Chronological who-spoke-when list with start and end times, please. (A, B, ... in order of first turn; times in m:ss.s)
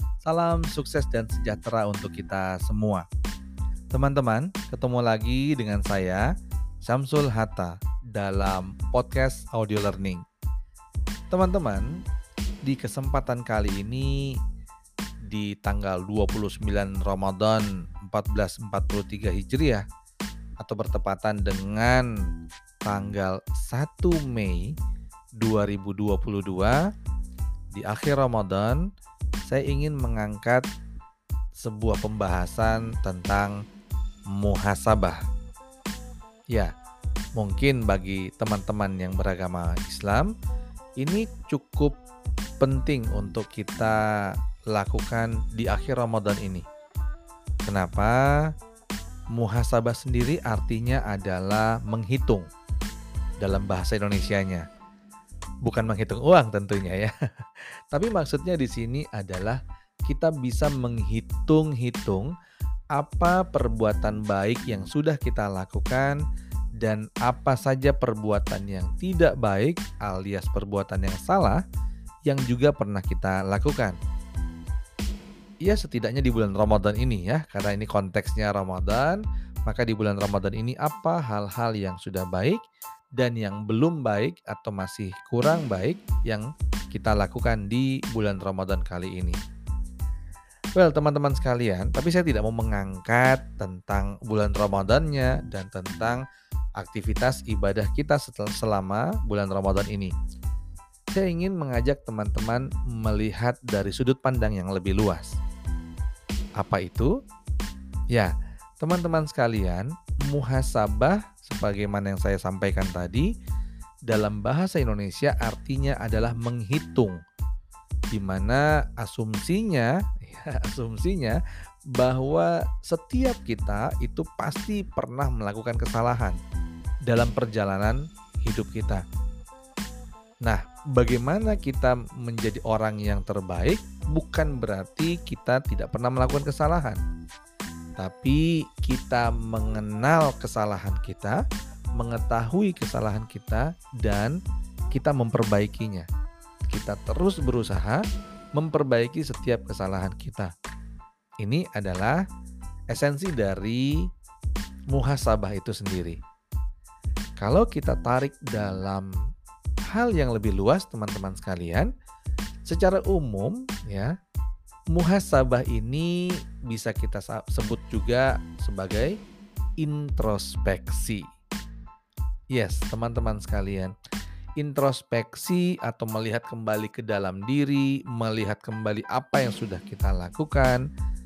0:00.2-0:03.0 A
0:03.9-0:06.2 A
0:06.8-0:10.2 A
0:11.3-0:11.9 A
0:12.6-0:14.2 A
0:15.3-0:19.8 A
0:20.6-0:22.1 A
0:22.8-0:24.7 A
0:25.4-0:26.8 A
0:27.7-0:28.8 A
0:29.4-0:30.6 A
0:31.6-0:33.5 A
0:34.3-0:35.2 A
0:37.4-0:40.3 A
0:41.0-0:42.0 A
0:42.6-0:46.6 A
0:47.6-0:48.5 A
0:49.3-0:52.5 A
0:53.4-0:54.6 A
0:55.6-1:02.3 A
1:02.9-1:06.2 A
1:06.8-1:11.6 A
1:12.2-1:14.0 A
1:15.6-1:22.6 A
1:23.2-1:29.4 A
1:30.8-1:36.2 A
1:36.8-1:40.1 A
1:41.1-1:45.4 A
1:46.6-1:47.1 A
1:48.1-1:53.3 A
1:54.1-1:57.2 A
1:58.1-2:01.4 A
2:01.9-2:06.4 A
2:07.1-2:09.0 A
2:10.4-2:17.0 A
2:18.0-2:21.4 A
2:22.0-2:24.4 A
2:24.9-2:26.1 A
2:26.7-2:28.0 A
2:28.5-2:30.5 A
2:31.4-2:32.2 A
2:32.9-2:34.1 A
2:34.9-2:36.2 A
2:37.4-2:39.1 A
2:39.9-2:41.9 A
2:42.6-2:44.1 A
2:44.9-2:49.1 A
2:49.8-2:51.2 A
2:52.5-2:53.9 A
2:54.6-3:00.8 A